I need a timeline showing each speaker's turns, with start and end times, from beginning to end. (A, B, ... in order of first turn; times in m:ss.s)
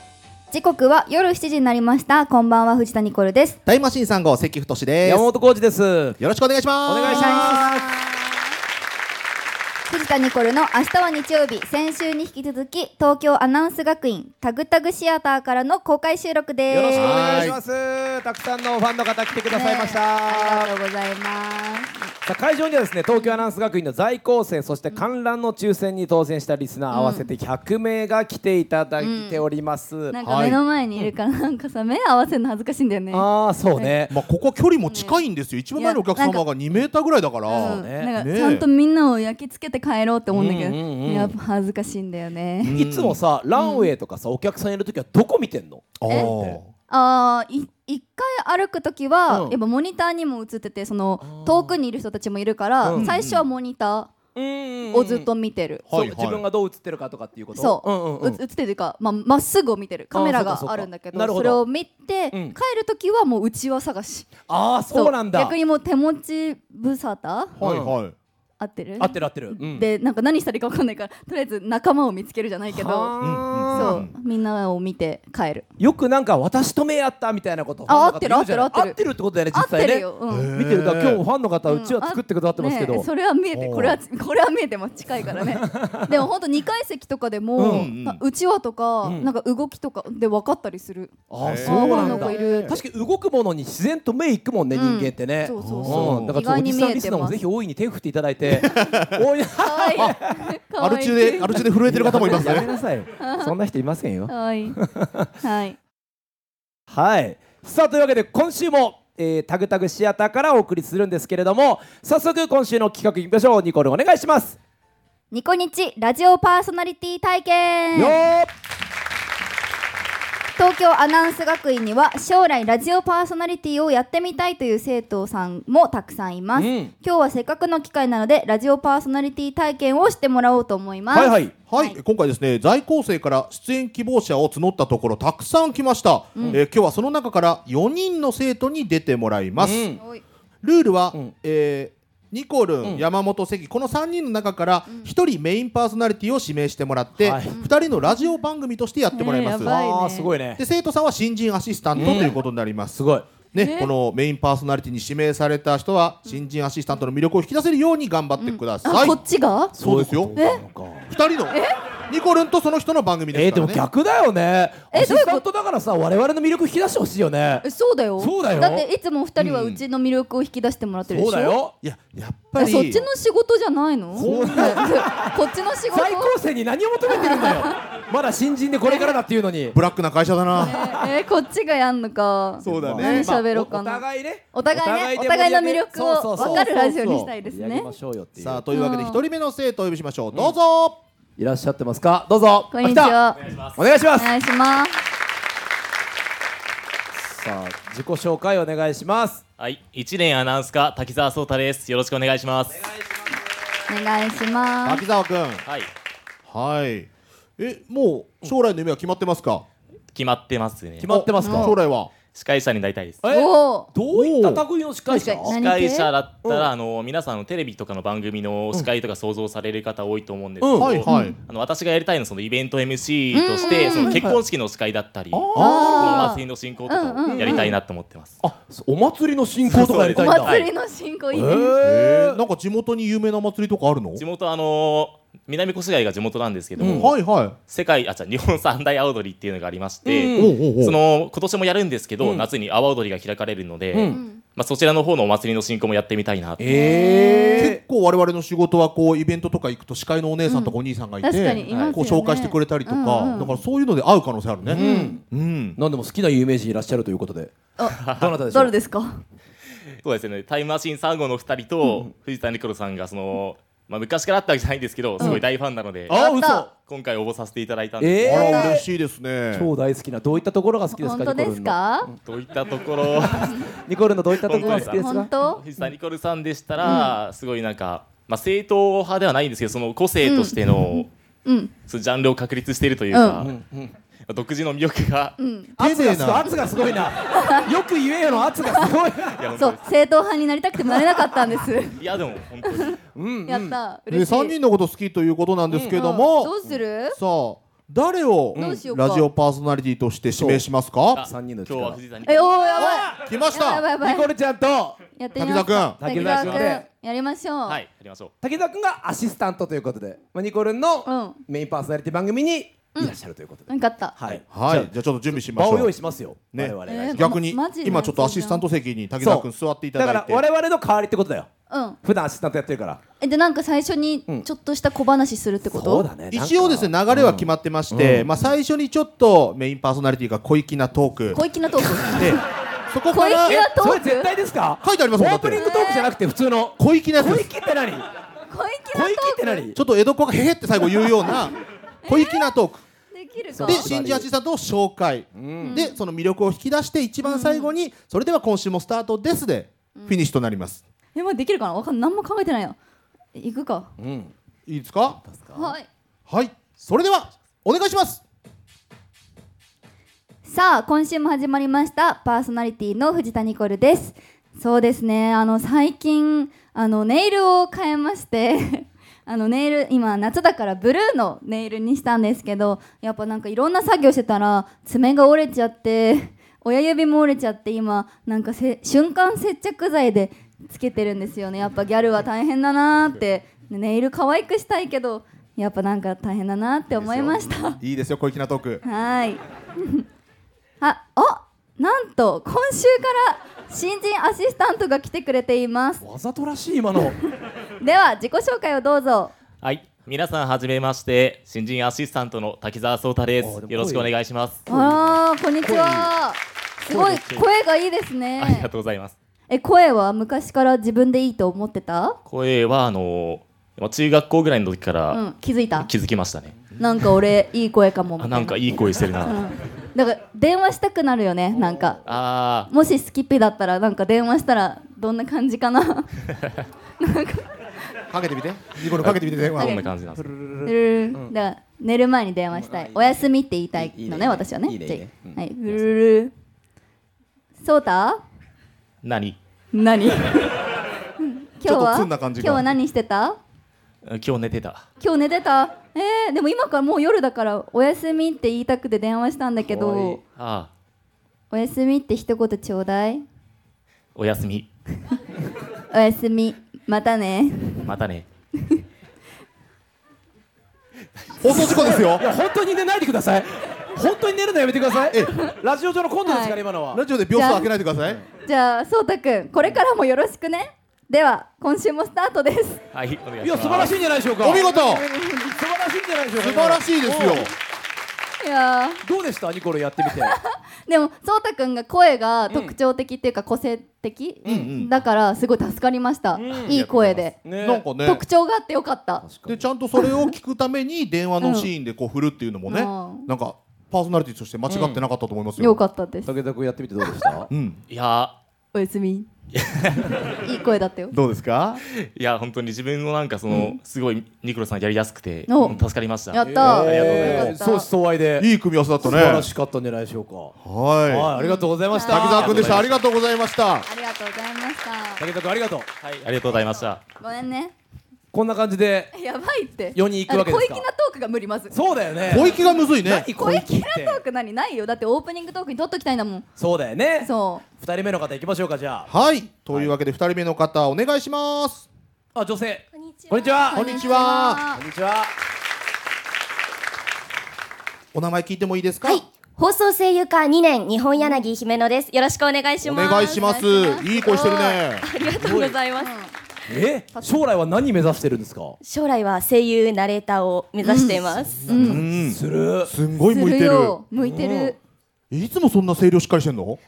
0:00.5-0:03.6 A
0:03.6-0:05.2 B
0:05.0-0:06.2 C
0:06.2-0:07.5 B
0:06.8-0:08.0 C
0:07.0-0:08.4 A
0:09.9-0:17.5 A
0:16.7-0:20.7 C
0:16.9-0:17.6 B
0:19.5-0:22.0 A
0:22.2-0:30.1 C
0:23.1-0:23.4 A
0:26.9-0:27.3 A
0:29.0-0:29.4 A
0:30.1-0:34.0 A
0:30.2-0:30.6 B
0:33.1-0:34.2 C
0:34.1-0:38.7 B
0:34.9-0:35.2 A
0:35.8-0:36.4 A
0:37.5-0:42.8 A
0:37.5-0:38.1 C
0:40.3-0:41.3 C
0:42.7-0:43.2 B
0:42.7-0:46.6 C
0:43.5-0:43.9 A
0:46.0-0:46.7 B
0:46.9-0:54.1 A
0:49.3-0:49.6 C
0:51.2-0:51.8 C
0:52.8-0:53.1 C
0:52.9-0:53.4 B
0:54.3-0:55.3 C
0:54.9-0:55.8 A
0:55.9-0:56.4 B
0:55.9-0:58.4 C
0:57.5-1:04.3 A
1:00.1-1:01.6 C
1:02.3-1:02.6 C
1:04.5-1:05.6 C
1:04.9-1:07.6 A
1:07.6-1:08.1 B
1:07.6-1:08.0 C
1:08.6-1:13.1 A
1:09.0-1:09.9 C
1:12.7-1:14.0 C
1:13.2-1:14.1 B
1:13.7-1:15.6 A
1:15.8-1:23.1 C
1:17.9-1:19.0 A
1:19.5-1:20.5 A
1:20.3-1:21.2 B
1:21.7-1:32.8 A
1:23.5-1:24.0 B
1:25.6-1:26.2 C
1:27.6-1:27.9 C
1:27.6-1:28.2 B
1:29.0-1:29.3 C
1:31.3-1:40.3 C
1:31.4-1:32.8 B
1:34.7-1:37.4 A
1:35.6-1:36.3 B
1:38.6-1:39.2 B
1:39.6-1:41.6 A
1:40.8-1:42.7 B
1:41.8-1:45.3 C
1:42.2-1:43.5 A
1:44.3-1:44.8 A
1:45.4-1:45.8 A
1:46.9-1:54.6 C
1:55.3-1:58.2 A
1:57.9-1:58.5 C
2:00.6-2:12.0 A
2:06.6-2:06.9 C
2:11.1-2:11.5 C
2:11.7-2:19.9 B
2:16.4-2:16.6 A
2:19.6-2:20.0 C
2:20.0-2:20.2 A
2:20.6-2:29.7 B
2:27.2-2:27.6 C
2:27.5-2:28.3 A
2:29.1-2:30.3 A
2:29.6-2:30.6 C
2:30.6-2:39.2 B
2:31.9-2:32.3 C
2:32.9-2:33.3 C
2:33.5-2:33.9 A
2:38.4-2:39.7 A
2:39.7-2:41.1 C
2:39.8-2:40.4 B
2:40.4-2:40.6 A
2:41.1-2:43.8 B
2:41.5-2:41.8 A
2:43.3-2:47.6 C
2:44.9-2:45.4 A
2:47.6-2:51.6 A
2:48.2-2:48.9 C
2:49.4-2:49.8 B
2:51.1-2:51.7 C
2:51.8-2:53.0 B
2:52.6-2:56.4 A
2:54.2-2:59.8 C
2:54.2-2:54.8 B
2:57.1-2:57.8 A
2:58.8-2:59.1 A
2:59.7-3:00.8 B
3:00.6-3:07.9 A
3:00.6-3:01.0 C
3:02.6-3:03.4 B
3:02.6-3:08.6 C
3:06.4-3:06.6 B
3:08.4-3:11.0 B
3:08.7-3:09.2 A
3:11.4-3:13.2 C
3:12.7-3:13.4 A
3:13.4-3:13.8 D
3:13.8-3:14.3 C
3:14.2-3:15.0 A
3:17.2-3:19.4 C
3:19.6-3:22.8 D
3:23.9-3:25.0 A
3:24.8-3:25.6 B
3:26.4-3:29.6 B
3:30.1-3:31.1 D
3:31.0-3:31.7 C
3:31.1-3:32.1 B
3:31.4-3:31.7 A
3:32.3-3:33.2 D
3:33.2-3:35.6 C
3:33.3-3:33.9 A
3:34.1-3:34.6 B
3:35.1-3:36.1 A
3:35.5-3:48.4 D
3:40.6-3:41.0 C
3:40.8-3:41.3 B
3:41.1-3:41.3 A
3:43.3-3:44.2 A
3:43.6-3:44.4 C
3:45.3-3:46.3 C
3:45.5-3:45.8 B
3:45.6-3:47.7 A
3:47.3-3:47.8 C
3:48.4-3:50.7 C
3:49.7-3:50.7 D
3:50.1-3:51.7 A
3:51.3-3:52.4 C
3:51.8-3:54.2 B
3:54.2-3:57.1 D
3:56.8-3:57.1 C
3:56.8-3:57.5 B
3:57.7-4:06.7 D
4:00.0-4:00.6 C
4:00.4-4:01.0 B
4:02.2-4:02.4 C
4:03.9-4:04.2 C
4:04.1-4:04.4 A
4:06.6-4:07.8 C
4:06.7-4:07.7 A
4:07.6-4:15.8 B
4:10.5-4:13.6 A
4:14.6-4:15.2 C
4:14.8-4:15.2 A
4:15.8-4:17.5 C
4:17.8-4:19.1 A
4:18.0-4:18.3 D
4:18.1-4:18.7 C
4:20.0-4:26.2 D
4:26.1-4:26.7 C
4:26.1-4:26.7 A
4:26.8-4:28.6 D
4:28.0-4:28.9 C
4:28.2-4:29.7 B
4:28.4-4:28.7 A
4:29.5-4:32.2 C
4:31.0-4:32.1 A
4:32.2-4:33.6 D
4:33.2-4:35.3 C
4:34.3-4:41.1 D
4:34.5-4:35.6 A
4:36.8-4:37.1 A
4:40.2-4:41.7 A
4:41.9-4:43.6 D
4:43.1-4:43.5 A
4:43.4-4:43.9 C
4:44.3-4:45.3 D
4:45.4-4:45.7 A
4:45.8-4:49.4 C
4:45.8-4:46.5 B
4:47.3-4:47.7 A
4:49.4-4:49.9 D
4:49.6-4:52.0 A
4:51.9-4:53.0 D
4:52.7-4:54.5 A
4:53.2-4:53.8 C
4:54.1-4:56.5 B
4:55.7-4:56.0 C
4:55.9-4:57.2 A
4:57.1-5:01.2 B
4:58.5-4:58.8 C
4:58.5-4:59.3 A
5:00.4-5:00.6 C
5:01.2-5:02.5 D
5:01.2-5:02.0 C
5:02.2-5:04.3 A
5:02.8-5:03.2 C
5:03.1-5:03.9 B
5:04.0-5:05.0 C
5:05.2-5:07.8 A
5:05.4-5:06.6 B
5:06.0-5:06.9 C
5:07.7-5:08.3 D
5:08.4-5:17.4 C
5:11.0-5:11.4 A
5:13.7-5:14.1 A
5:14.5-5:15.9 B
5:16.5-5:20.4 B
5:16.8-5:18.6 A
5:19.2-5:21.5 C
5:21.7-5:22.0 A
5:22.0-5:23.0 C
5:23.2-5:26.1 A
5:25.7-5:28.3 C
5:26.3-5:31.4 B
5:31.3-5:32.4 A
5:32.1-5:33.6 B
5:33.1-5:34.3 A
5:33.4-5:38.0 C
5:34.8-5:35.6 B
5:35.5-5:36.1 A
5:36.8-5:37.5 B
5:38.5-5:39.6 A
5:38.9-5:39.8 C
5:39.7-5:41.5 B
5:42.0-5:42.5 A
5:42.0-5:42.8 B
5:43.1-5:43.9 A
5:43.5-5:44.3 C
5:43.6-5:50.8 B
5:45.3-5:45.8 C
5:45.6-5:45.9 A
5:47.2-5:47.7 A
5:51.1-5:52.8 A
5:53.4-5:53.9 A
5:54.0-5:54.3 C
5:54.7-5:55.2 B
5:55.2-5:55.7 C
5:55.5-5:55.9 A
5:56.3-5:58.2 B
6:00.4-6:27.8 A
6:27.8-6:28.8 B
6:28.8-6:30.0 A
6:30.8-6:36.0 A
6:36.0-6:37.2 C
6:37.8-6:39.3 A
6:39.6-6:44.6 D
6:43.4-6:44.1 C
6:44.7-6:46.1 C
6:44.7-6:48.7 A
6:46.9-6:47.4 C
6:48.4-6:49.1 D
6:49.5-6:52.2 A
6:52.3-6:56.6 D
6:55.1-6:55.9 A
6:56.8-6:58.6 A
6:58.2-6:59.4 D
6:59.2-7:02.0 A
7:01.5-7:02.0 C
7:02.0-7:02.7 D
7:02.7-7:06.2 A
7:07.0-7:07.4 A
7:08.1-7:09.7 B
7:08.9-7:10.3 D
7:09.6-7:09.9 A
7:10.2-7:11.3 C
7:10.6-7:16.3 A
7:12.5-7:15.4 C
7:17.6-7:18.2 A
7:19.0-7:19.4 D
7:19.7-7:20.6 A
7:21.2-7:23.4 A
7:21.6-7:22.6 B
7:24.0-7:24.8 D
7:25.0-7:30.2 A
7:29.7-7:30.2 C
7:30.4-7:30.7 D
7:31.5-7:33.2 A
7:34.1-7:34.7 D
7:35.9-7:37.9 A
7:37.8-7:38.2 D
7:41.4-7:42.2 B
7:41.5-7:47.0 C
7:41.5-7:42.0 A
7:45.1-7:45.4 B
7:46.2-7:46.6 A
7:46.9-7:48.2 B
7:47.3-7:47.7 A
7:48.4-7:52.8 A
7:52.9-7:54.0 D
7:53.4-7:54.7 C
7:54.4-7:55.0 B
7:54.4-7:55.6 A
7:55.5-7:57.5 C
7:56.4-7:57.5 B
7:58.4-7:59.0 A
7:59.0-8:00.4 C
8:00.2-8:07.4 A
8:02.5-8:02.7 C
8:04.4-8:04.7 C
8:04.4-8:04.9 B
8:06.3-8:06.7 C
8:06.7-8:07.2 D
8:07.4-8:07.8 C
8:07.6-8:08.2 B
8:08.0-8:09.2 A
8:09.2-8:09.6 C
8:09.5-8:15.8 B
8:10.0-8:10.3 A
8:11.4-8:11.7 A
8:12.7-8:13.3 A
8:14.7-8:15.0 C
8:15.6-8:16.3 A
8:16.2-8:17.5 C
8:17.0-8:17.3 A
8:17.5-8:17.8 B
8:17.9-8:18.4 D
8:18.7-8:19.3 A
8:19.5-8:20.3 D
8:20.4-8:21.1 A
8:21.1-8:21.8 B
8:21.8-8:27.6 D
8:25.5-8:25.8 A
8:25.6-8:25.9 C
8:26.3-8:27.9 A
8:26.4-8:28.5 C
8:26.6-8:27.5 B
8:28.4-8:29.5 B
8:29.0-8:30.5 C
8:30.6-8:31.3 B
8:31.1-8:33.0 C
8:31.4-8:32.4 A
8:32.0-8:33.9 B
8:32.4-8:32.9 D
8:33.8-8:35.2 A
8:35.2-8:35.9 C
8:36.0-8:37.0 D
8:37.2-8:37.7 A
8:38.3-8:39.1 C
8:39.1-8:41.7 A
8:39.9-8:40.8 C
8:41.7-8:44.2 C
8:42.2-8:43.3 B
8:42.3-8:42.8 A
8:43.3-8:46.4 A
8:46.6-8:49.1 C
8:47.2-8:47.6 A
8:49.1-8:51.9 B
8:52.3-8:53.9 C
8:52.9-8:54.2 E
8:53.7-8:54.8 A
8:53.7-8:54.6 B
8:54.7-8:55.3 C
8:58.1-8:59.2 B
8:59.0-9:03.2 E
9:02.8-9:05.1 B
9:02.9-9:04.3 A
9:04.2-9:06.1 E
9:05.2-9:05.7 C
9:06.0-9:06.3 A
9:06.7-9:08.8 C
9:08.8-9:11.7 E
9:10.8-9:12.0 A
9:11.6-9:12.9 C
9:11.7-9:14.0 B
9:13.3-9:14.8 A
9:14.2-9:14.8 C
9:15.3-9:16.8 B